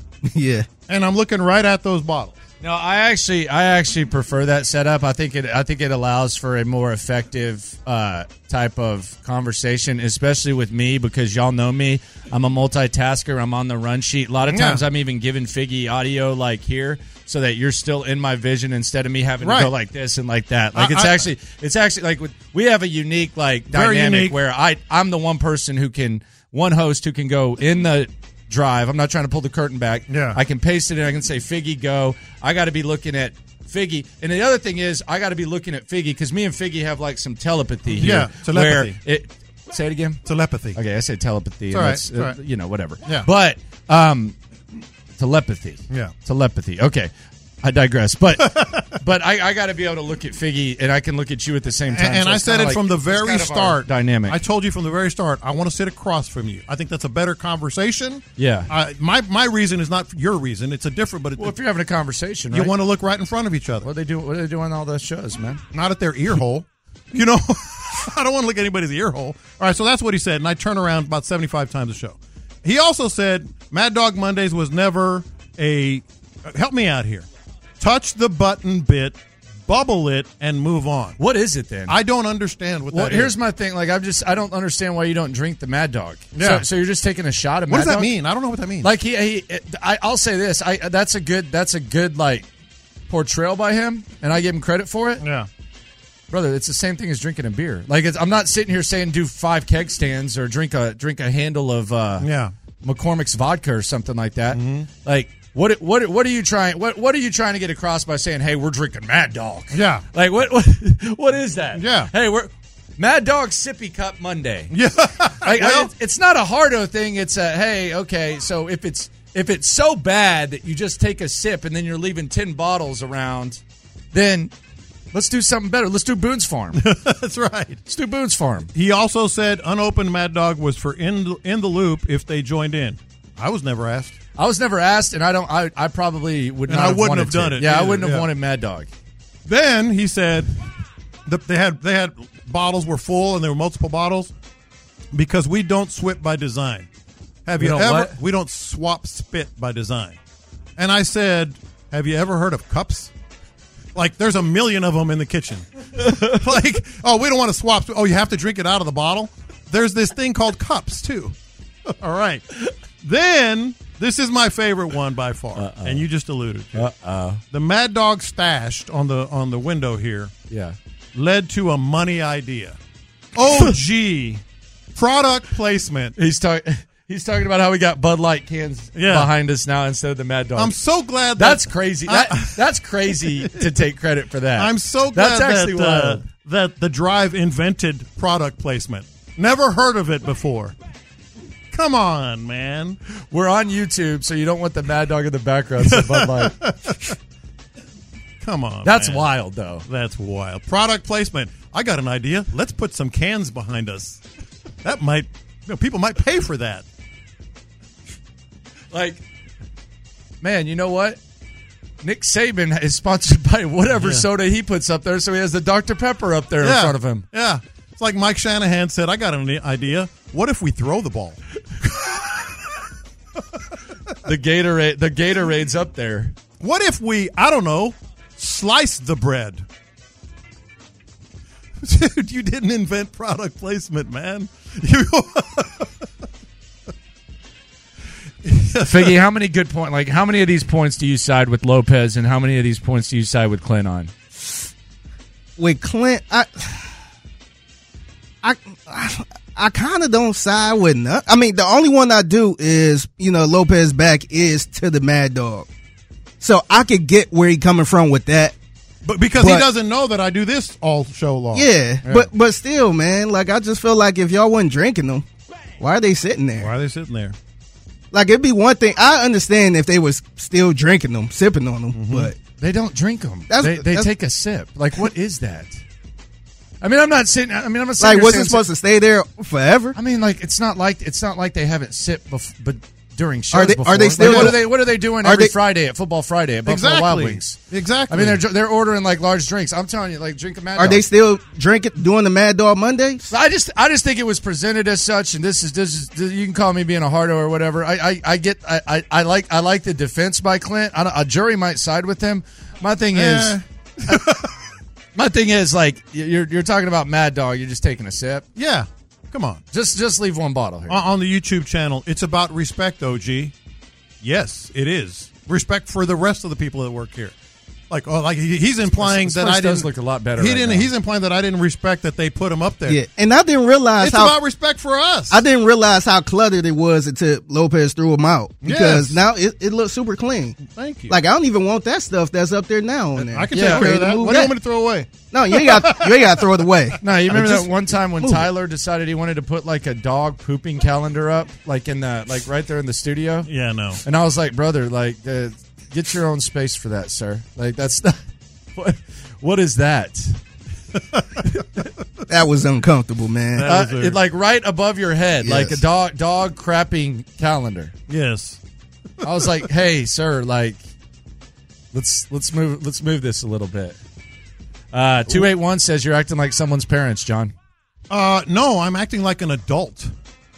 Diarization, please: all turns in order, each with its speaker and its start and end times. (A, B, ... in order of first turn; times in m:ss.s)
0:00.2-0:00.7 A
0:00.9-0:02.4 B
0:02.6-0:44.4 C
0:14.5-0:14.8 B
0:19.4-0:19.7 B
0:20.8-0:21.3 B
0:23.7-0:24.4 B
0:30.1-0:30.4 B
0:37.9-0:39.0 B
0:40.2-0:40.8 B
0:41.7-0:42.4 B
0:45.2-0:47.1 C
0:47.6-0:54.4 C
0:48.4-0:49.0 B
0:51.9-1:01.6 B
0:58.4-0:58.7 C
1:01.4-1:02.7 C
1:02.5-1:03.9 B
1:03.8-1:05.6 C
1:05.7-1:17.3 B
1:17.8-1:21.2 B
1:21.2-1:22.0 C
1:21.9-1:23.4 B
1:22.9-1:28.1 C
1:26.3-1:26.6 B
1:27.7-1:28.9 B
1:28.8-1:32.5 C
1:33.1-1:35.2 C
1:35.2-1:35.5 B
1:36.3-1:42.3 C
1:42.2-1:42.5 B
1:42.8-1:54.8 C
1:44.5-1:44.9 B
1:49.7-1:50.0 B
1:51.8-1:52.1 B
1:54.7-1:55.9 B
1:55.4-2:03.6 C
2:04.1-2:04.5 C
2:05.1-2:06.8 C
2:06.8-2:07.8 B
2:07.9-2:08.7 C
2:08.7-2:14.2 B
2:14.4-2:18.9 C
2:16.7-2:18.3 B
2:19.5-2:20.6 B
2:21.3-2:24.3 B
2:25.1-2:26.9 B
2:27.5-2:30.2 B
2:27.6-2:28.2 C
2:30.8-2:33.1 B
2:34.0-2:41.4 B
2:36.0-2:36.4 C
2:41.9-2:42.4 B
2:43.0-2:46.9 B
2:45.6-2:46.1 C
2:46.7-2:47.4 C
2:47.5-2:50.3 B
2:50.5-2:50.8 C
2:51.1-2:52.8 B
2:53.4-2:54.4 B
2:55.0-2:56.2 B
2:56.2-3:00.8 C
2:58.9-2:59.3 B
3:00.6-3:03.7 B
3:01.4-3:06.2 C
3:04.6-3:10.8 B
3:11.7-3:13.0 B
3:13.3-3:16.6 C
3:15.8-3:17.2 B
3:18.4-3:19.3 B
3:18.8-3:19.9 C
3:19.9-3:24.2 B
3:24.8-3:26.8 B
3:28.9-3:29.2 C
3:30.4-3:31.2 C
3:32.0-3:37.3 C
3:33.9-3:34.3 B
3:36.6-3:41.4 B
3:44.2-3:46.4 C
3:46.6-3:49.6 B
3:51.8-3:56.0 B
3:58.4-3:59.2 B
3:58.8-4:04.1 C
4:05.6-4:07.0 A
4:08.4-4:15.7 A
4:16.4-4:18.6 A
4:19.0-4:22.3 B
4:19.4-4:19.7 A
4:21.5-4:25.2 A
4:25.8-4:26.7 A
4:26.6-4:27.4 B
4:28.1-4:32.4 A
4:31.9-4:32.3 B
4:32.6-4:35.8 C
4:33.5-4:34.1 A
4:36.8-4:38.6 C
4:38.0-4:40.0 A
4:40.0-4:51.0 C
4:43.5-4:45.5 A
4:44.2-4:44.6 B
4:46.7-4:48.4 B
4:50.8-4:53.3 A
4:53.3-5:04.3 C
5:03.1-5:04.6 B
5:05.2-5:08.4 C
5:08.6-5:09.6 B
5:09.7-5:11.0 C
5:10.9-5:13.5 B
5:14.2-5:17.4 B
5:17.9-5:23.0 B
5:18.9-5:20.9 C
5:22.9-5:24.4 A
5:24.0-5:25.4 B
5:25.3-5:30.6 A
5:28.6-5:29.2 B
5:30.6-5:31.2 B
5:31.1-5:34.6 A
5:33.2-5:36.5 B
5:33.5-5:33.9 C
5:35.3-5:38.5 A
5:37.0-5:43.5 C
5:43.5-5:44.0 B
5:44.0-5:48.2 C
5:48.8-5:50.4 C
5:51.4-5:51.9 C
5:52.3-5:53.7 A
5:53.6-5:54.2 B
5:53.7-5:57.9 C
5:55.4-5:55.8 A
5:58.1-5:58.6 B
5:59.2-6:00.8 C
6:01.9-6:04.0 C
6:04.9-6:07.5 C
6:08.1-6:10.1 B